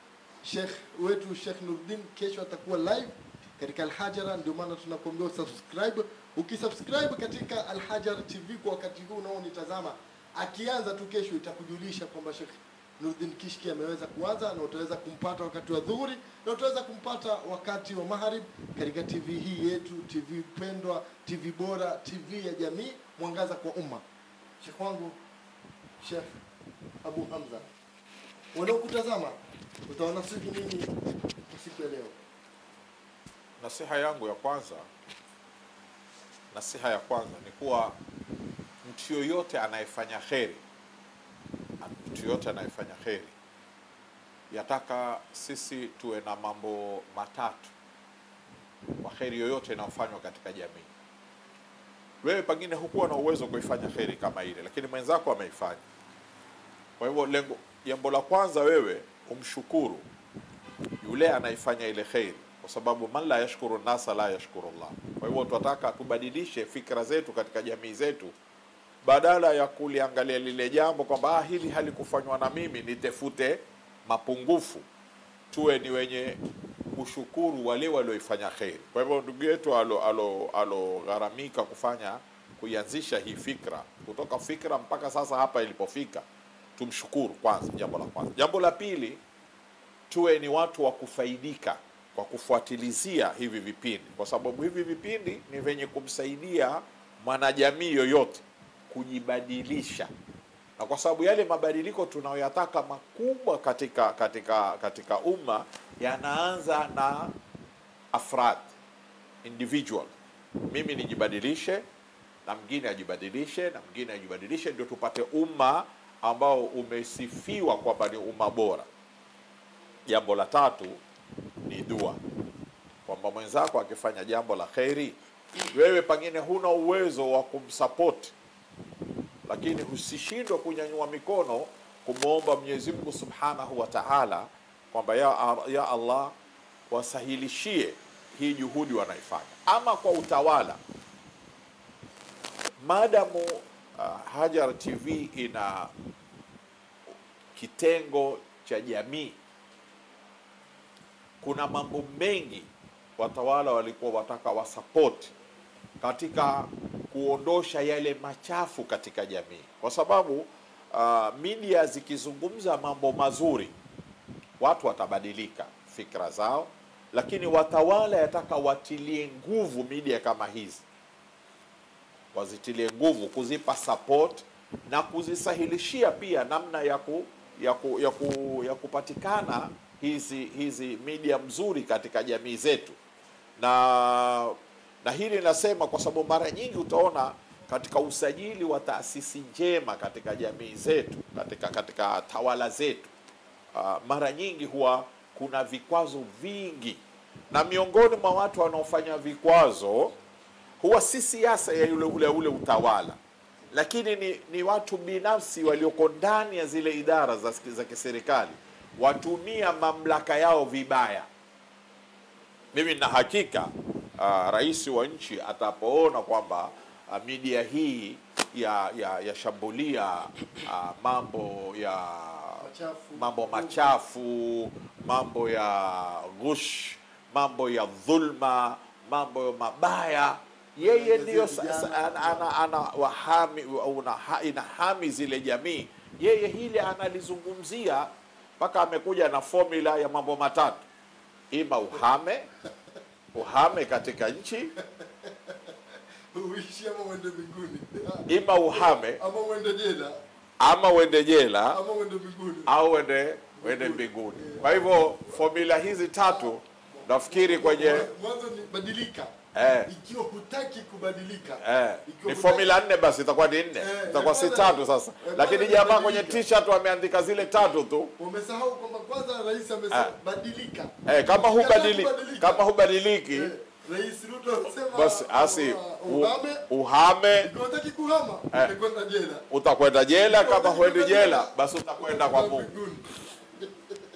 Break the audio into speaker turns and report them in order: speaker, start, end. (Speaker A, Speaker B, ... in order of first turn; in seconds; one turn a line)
Speaker A: 0.4-24.0
Speaker A: 24.6-25.2
Speaker A: 26.0-26.3
Speaker A: 27.0-27.6
Speaker A: 28.5-29.4
Speaker A: 29.9-30.9
Speaker A: 31.5-32.1
Speaker B: 33.6-34.9
Speaker B: 36.5-38.0
Speaker B: 38.8-40.6
Speaker B: 41.8-43.3
Speaker B: 44.5-47.7
Speaker B: 49.0-50.9
Speaker B: 52.2-55.8
Speaker B: 57.0-60.0
Speaker B: 61.0-68.3
Speaker B: 69.0-74.8
Speaker B: 75.5-76.4
Speaker B: 76.9-86.2
Speaker B: 86.8-89.2
Speaker B: 90.1-100.1
Speaker B: 100.8-107.3
Speaker B: 108.1-108.7
Speaker B: 109.4-110.1
Speaker B: 110.7-111.8
Speaker B: 112.4-118.9
Speaker B: 120.1-121.0
Speaker B: 121.7-122.2
Speaker B: 123.0-125.2
Speaker B: 125.7-128.3
Speaker B: 129.4-136.3
Speaker B: 136.9-140.8
Speaker B: 142.8-145.9
Speaker B: 147.5-149.3
Speaker B: 151.4-155.3
Speaker B: 156.0-163.7
Speaker B: 164.6-170.8
Speaker B: 172.3-183.0
Speaker B: 183.6-193.1
Speaker B: 193.7-200.2
Speaker B: 200.8-203.2
Speaker B: 203.7-211.3
Speaker B: 212.7-240.8
Speaker A: 222.6-223.9
Speaker A: 230.8-232.5
Speaker B: 241.5-242.5
Speaker B: 243.3-244.7
Speaker A: 244.8-245.6
Speaker A: 246.3-250.2
Speaker B: 248.3-249.2
Speaker B: 250.6-251.8
Speaker A: 251.7-252.7
Speaker B: 252.7-258.1
Speaker A: 253.6-255.4
Speaker A: 256.3-259.3
Speaker B: 259.5-259.9
Speaker A: 259.9-262.7
Speaker B: 261.6-268.1
Speaker A: 263.8-266.4
Speaker A: 268.2-272.6
Speaker B: 271.1-273.5
Speaker A: 273.3-276.6
Speaker B: 274.8-277.5
Speaker A: 277.4-279.4
Speaker B: 279.5-282.7
Speaker A: 280.2-281.5
Speaker A: 282.0-283.8